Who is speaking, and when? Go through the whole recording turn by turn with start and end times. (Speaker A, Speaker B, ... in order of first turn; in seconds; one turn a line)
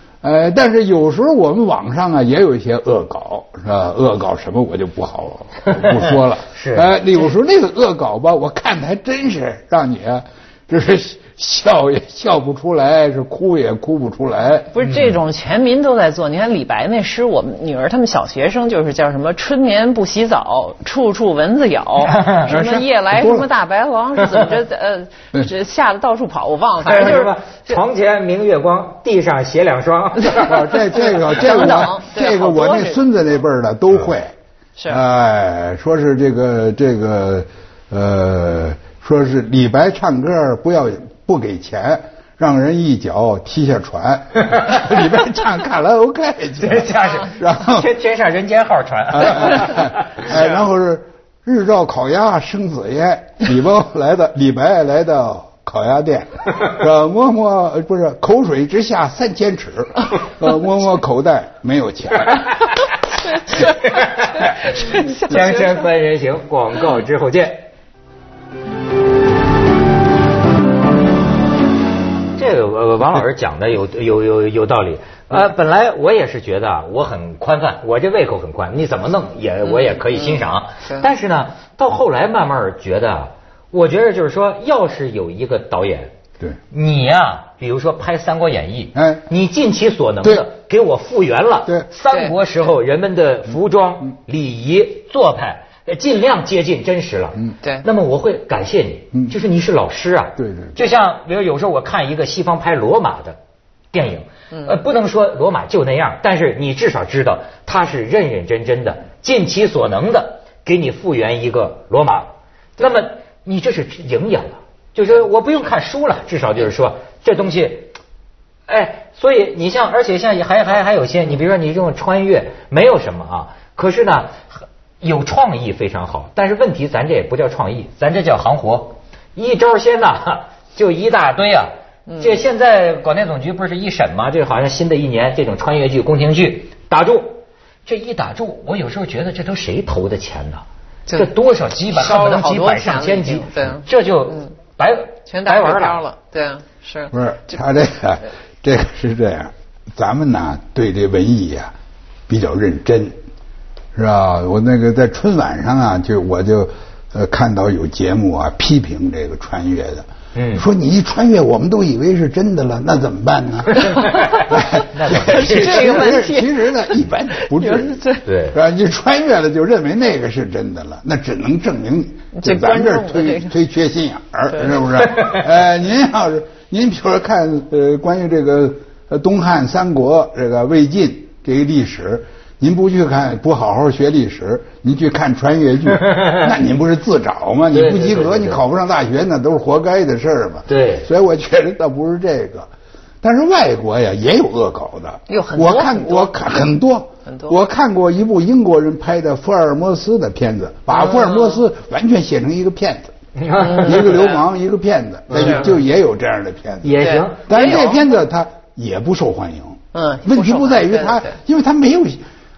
Speaker A: 0.2-14.7
Speaker B: 6.5-6.9
Speaker C: 14.7-27.4
Speaker B: 14.8-15.1
Speaker B: 22.1-22.4
Speaker A: 22.5-23.5
Speaker B: 26.8-30.9
Speaker A: 30.3-34.3
Speaker C: 30.9-33.0
Speaker A: 34.9-47.9
Speaker B: 46.6-50.6
Speaker A: 49.1-62.6
Speaker B: 63.5-67.7
Speaker C: 64.6-65.8
Speaker B: 72.4-86.1
Speaker C: 79.9-80.3
Speaker B: 86.7-103.4
Speaker A: 89.0-89.2
Speaker A: 100.4-100.8
Speaker B: 103.9-117.9
Speaker B: 118.7-146.0
Speaker C: 132.1-132.4
Speaker C: 141.9-143.8
Speaker C: 145.3-147.1
Speaker A: 147.1-151.7
Speaker A: 152.3-153.2
Speaker A: 153.9-192.7
Speaker B: 160.3-160.7
Speaker B: 164.0-166.2
Speaker C: 165.1-166.7
Speaker C: 167.3-168.2
Speaker B: 168.3-168.6
Speaker C: 172.3-173.5
Speaker B: 175.1-175.4
Speaker B: 186.1-186.4
Speaker B: 187.7-188.6
Speaker B: 190.7-191.1
Speaker A: 193.2-212.2
Speaker C: 195.3-196.4
Speaker C: 197.3-197.5
Speaker C: 200.9-201.6
Speaker B: 203.4-204.4
Speaker B: 205.3-205.8
Speaker B: 206.8-207.9
Speaker C: 207.0-208.0
Speaker C: 209.9-211.4